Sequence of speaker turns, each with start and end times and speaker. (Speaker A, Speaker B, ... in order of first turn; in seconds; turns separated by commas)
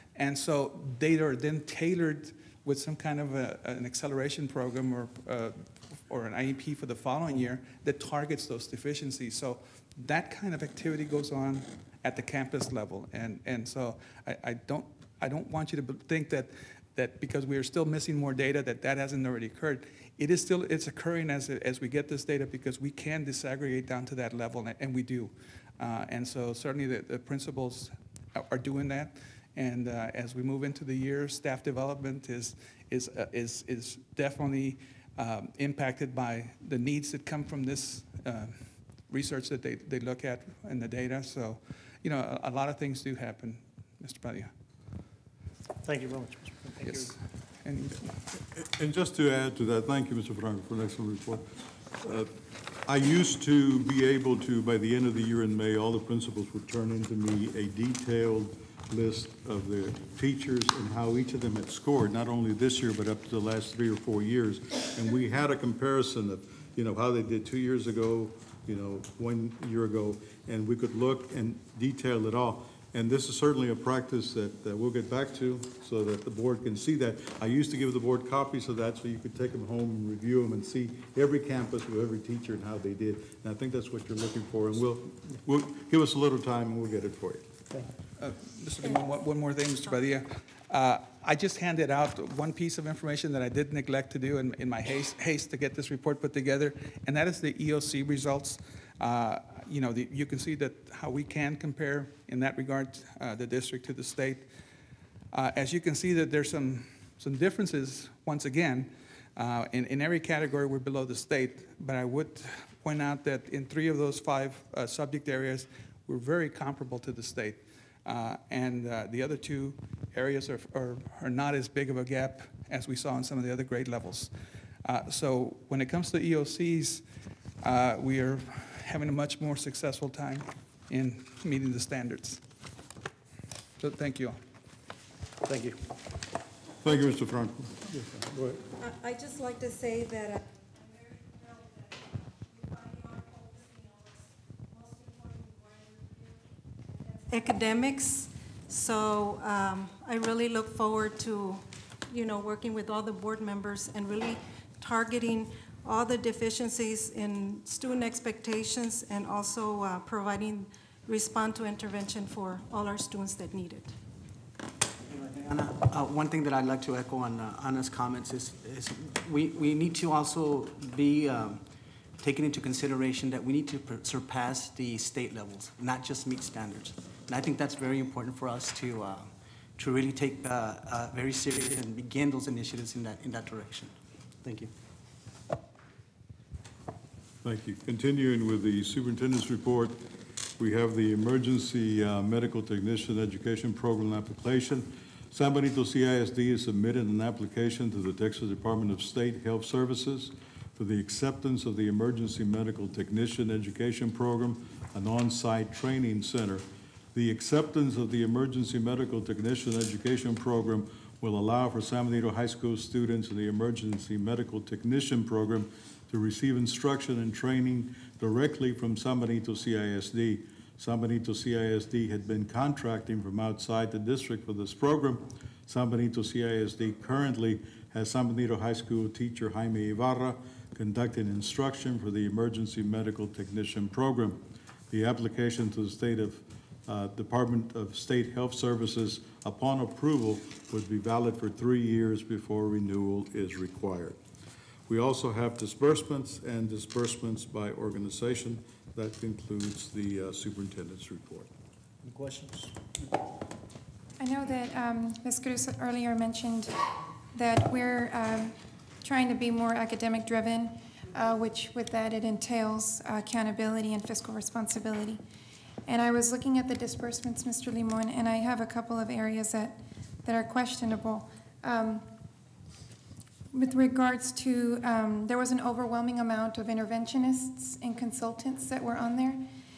Speaker A: 0.2-44.5, Speaker B: 45.9-47.1, Speaker A: 46.9-48.1, Speaker C: 48.6-52.3, Speaker C: 52.8-87.5, Speaker A: 88.2-104.5, Speaker A: 105.3-124.3, Speaker A: 124.8-127.0, Speaker A: 127.6-132.4, Speaker A: 133.8-134.4, Speaker B: 135.5-135.8, Speaker C: 136.8-138.6, Speaker D: 138.8-140.4, Speaker D: 147.3-163.9, Speaker E: 165.1-171.6, Speaker E: 172.2-184.7, Speaker C: 187.4-190.0, Speaker C: 190.6-244.2, Speaker C: 244.9-251.5, Speaker B: 252.0-252.8, Speaker F: 254.2-256.8, Speaker F: 257.3-265.2, Speaker F: 265.9-272.1, Speaker F: 273.5-279.5